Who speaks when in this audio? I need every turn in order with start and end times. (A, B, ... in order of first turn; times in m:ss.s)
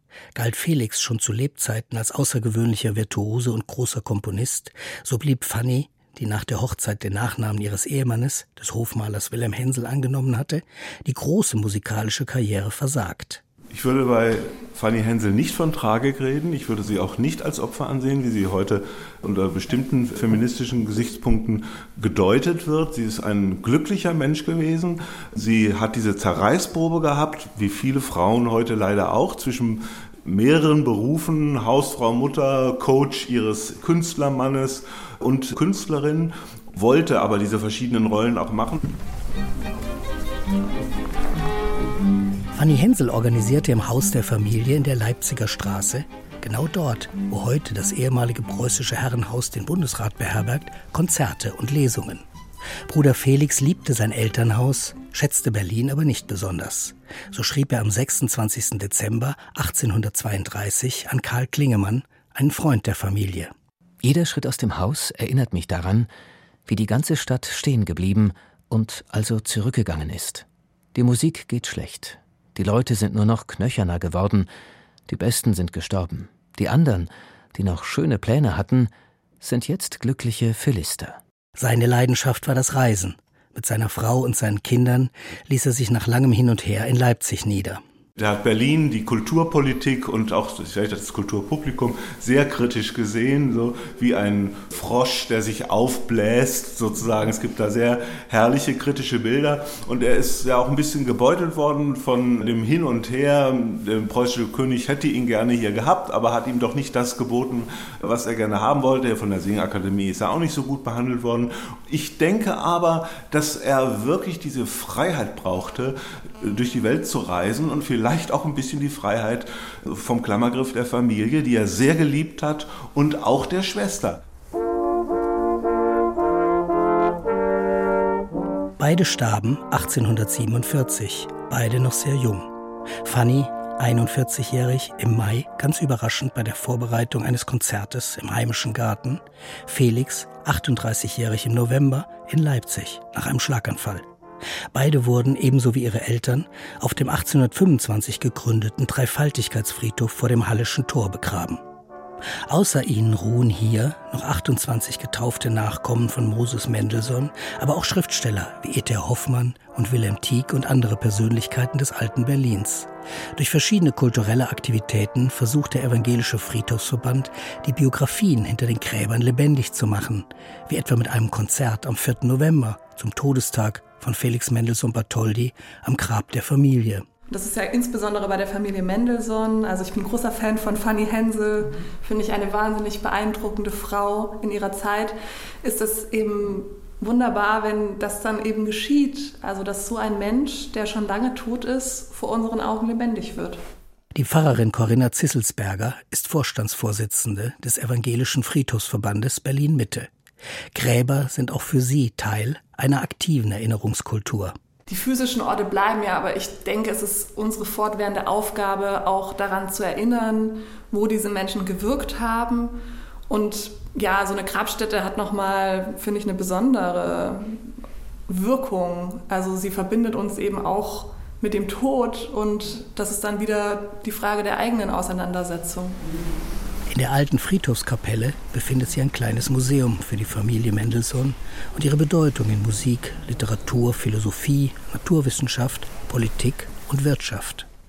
0:00.3-0:13.4 A
0:13.7-0:38.9 B
0:42.5-0:52.2 A
0:52.9-1:03.5 A
1:04.0-1:06.1 C
1:06.7-1:14.5 C
1:15.1-1:21.2 C
1:21.6-1:27.8 A
1:28.2-2:04.2 B
2:08.8-2:12.5 A
2:13.0-2:24.0 A
2:24.7-2:31.6 A
2:32.5-2:57.0 A
2:57.3-3:13.6 D
3:14.1-3:20.1 A
3:20.7-3:24.5 A
3:24.9-3:32.7 D
3:33.3-3:37.7 D
3:38.3-3:46.0 D
3:46.9-3:57.6 A